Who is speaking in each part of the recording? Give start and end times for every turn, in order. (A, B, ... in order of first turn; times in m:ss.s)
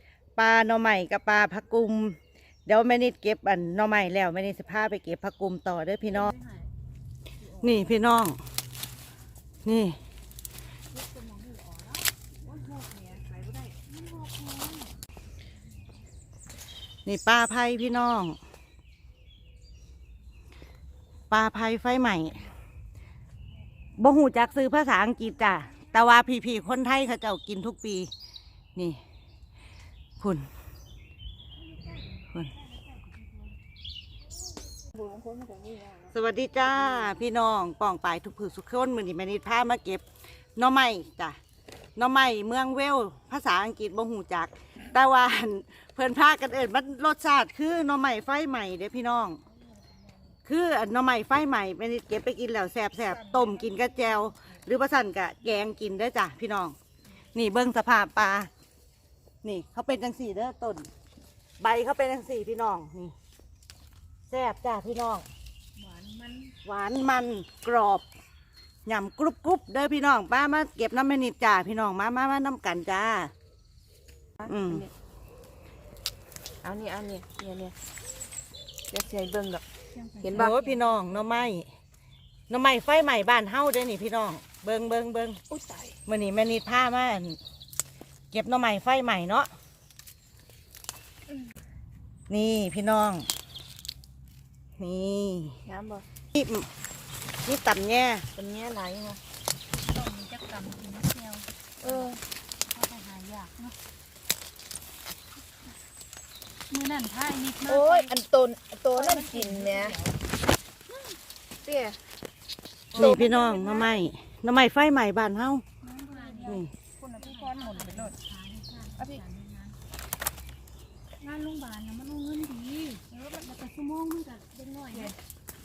0:00.4-0:06.3 A
0:06.0-0:06.7 B
0:07.4-0:07.9 B
0:07.6-0:08.4 A
0:09.6-0:10.0 A
0:10.9-0:12.1 B
0:13.4-0:14.9 B
0:17.1-0:18.4 A
0:21.3-0:22.4 A
0:24.0-0:28.1 A
0:28.8-0:29.0 A
0:30.2-0:30.5 A
0:34.8-0:36.1 C
0:36.1-0:40.0 A
0:40.6-0:41.4 A
0:42.0-0:49.4 A
0:50.4-0:56.8 A
0:53.1-0:54.5 C
0:57.3-0:58.5 A
0:59.4-1:00.9 A
1:01.6-1:03.2 A
1:04.3-1:05.2 A
1:05.8-1:06.5 B
1:06.6-1:08.0 A
1:08.9-1:13.3 A
1:14.4-1:14.9 C
1:14.5-1:14.9 A
1:16.6-1:17.8 C
1:18.9-1:19.6 C
1:19.9-1:21.5 B
1:20.2-1:20.5 C
1:20.3-1:21.7 A
1:22.5-1:25.4 A
1:25.5-1:26.0 C
1:26.1-1:27.4 A
1:28.3-1:29.5 A
1:32.3-1:33.3 A
1:34.8-1:35.6 A
1:35.6-1:36.0 C
1:36.3-1:36.7 A
1:37.4-1:38.3 A
1:38.4-1:39.2 C
1:39.8-1:43.8 B
1:41.8-1:42.2 C
1:46.7-1:48.1 B
1:47.6-1:50.0 C
1:48.9-1:50.1 B
1:50.9-1:51.2 B
1:51.6-1:52.0 C
1:52.9-1:53.9 C
1:53.0-1:55.6 A
1:55.8-1:58.2 C
1:55.9-1:59.8 B
1:56.4-1:56.7 A
2:01.2-2:05.2 B
2:03.1-2:03.5 C
2:04.9-2:05.2 C